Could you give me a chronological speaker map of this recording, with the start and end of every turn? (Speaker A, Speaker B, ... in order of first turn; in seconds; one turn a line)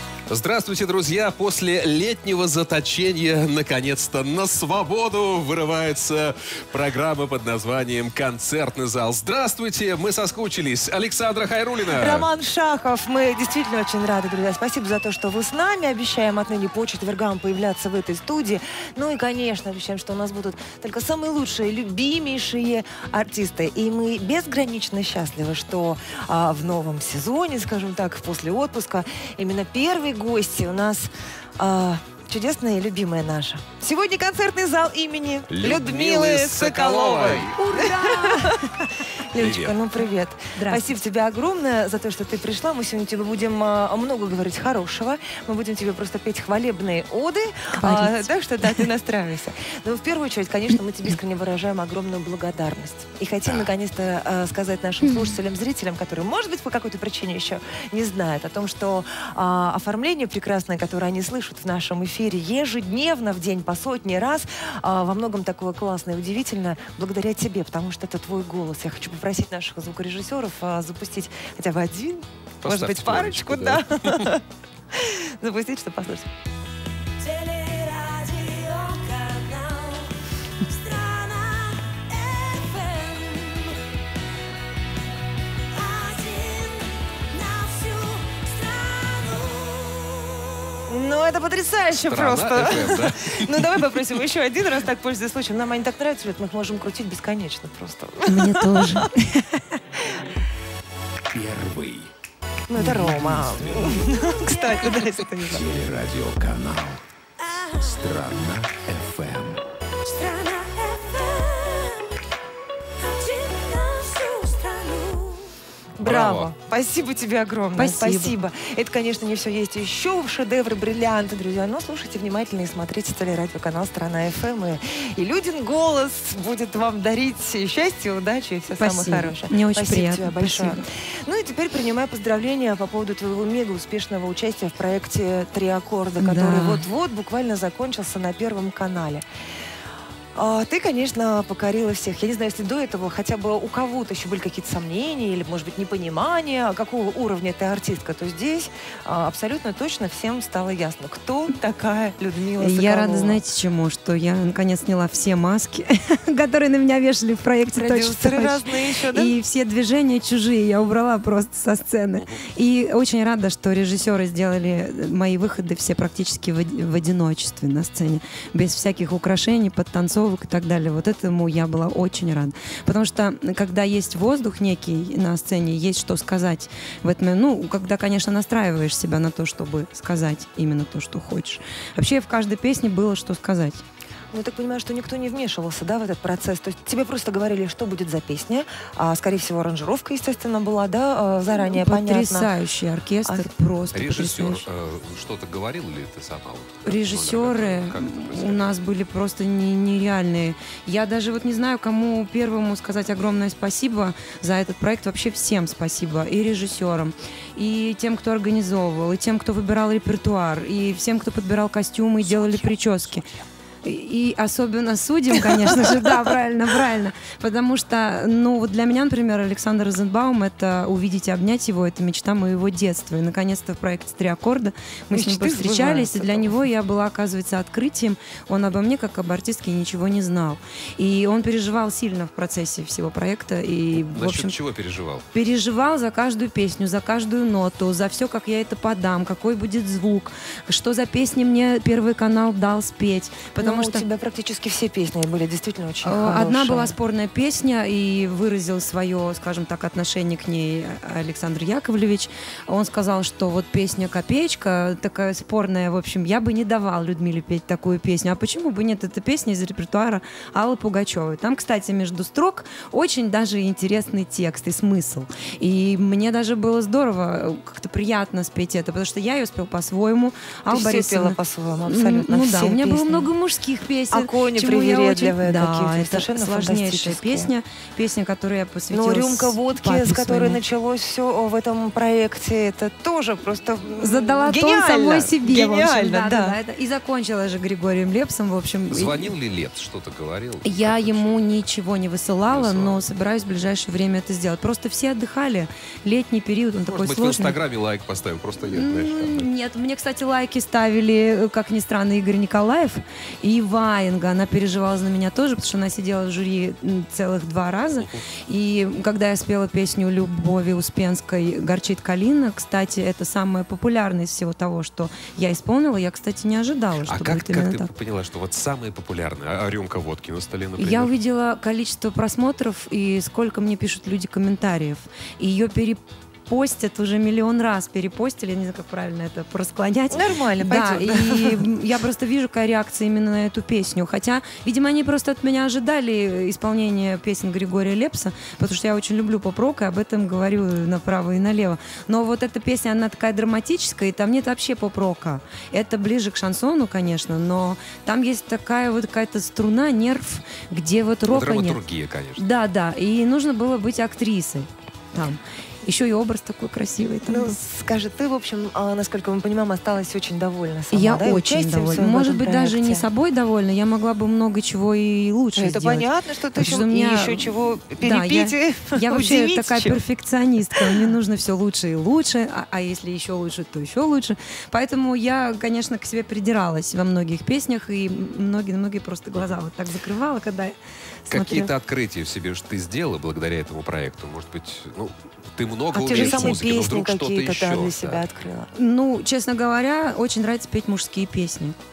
Speaker A: 0.3-12.3
Speaker B: 11.8-38.6
Speaker A: 35.5-37.5
Speaker C: 37.6-38.8
Speaker B: 39.2-76.3
Speaker A: 39.4-39.8
Speaker C: 40.5-40.9
Speaker C: 47.7-48.8
Speaker A: 53.4-53.7
Speaker A: 72.6-74.3
Speaker C: 77.2-83.7
Speaker C: 85.7-90.8
Speaker B: 90.9-99.0
Speaker A: 92.0-94.0
Speaker C: 98.3-99.6
Speaker D: 101.3-102.1
Speaker B: 102.7-105.7
Speaker D: 103.0-104.0
Speaker D: 105.6-107.0
Speaker D: 107.8-109.6
Speaker C: 110.1-112.0
Speaker C: 113.1-115.4
Speaker B: 116.0-139.2
Speaker A: 116.0-116.5
Speaker C: 117.8-118.4
Speaker C: 128.8-130.8
Speaker C: 136.2-136.8
Speaker B: 140.4-153.4
Speaker C: 152.6-183.8
Speaker B: 157.7-159.3
Speaker B: 184.3-192.5
Speaker C: 191.5-194.6
Speaker A: 193.9-198.8
Speaker C: 196.8-213.3
Speaker A: 212.2-213.3
Speaker C: 213.8-234.6
Speaker B: 225.1-226.6
Speaker A: 234.0-235.2
Speaker C: 235.3-244.1
Speaker B: 243.6-246.9
Speaker C: 246.0-280.6
Speaker B: 270.7-273.3
Speaker B: 274.1-277.5
Speaker B: 278.9-286.6
Speaker C: 284.0-289.3
Speaker A: 288.9-291.3
Speaker C: 290.6-297.6
Speaker A: 292.5-293.0
Speaker A: 296.9-299.5
Speaker C: 298.7-317.9
Speaker A: 317.0-321.1
Speaker C: 320.8-351.8
Speaker B: 330.1-331.7
Speaker A: 351.3-352.4
Speaker C: 352.4-357.6
Speaker B: 357.3-363.1
Speaker C: 360.9-367.5
Speaker B: 365.6-370.0
Speaker C: 368.0-381.7
Speaker B: 370.8-371.1
Speaker A: 381.3-388.3
Speaker C: 385.9-386.6
Speaker B: 386.0-388.7
Speaker C: 388.7-391.8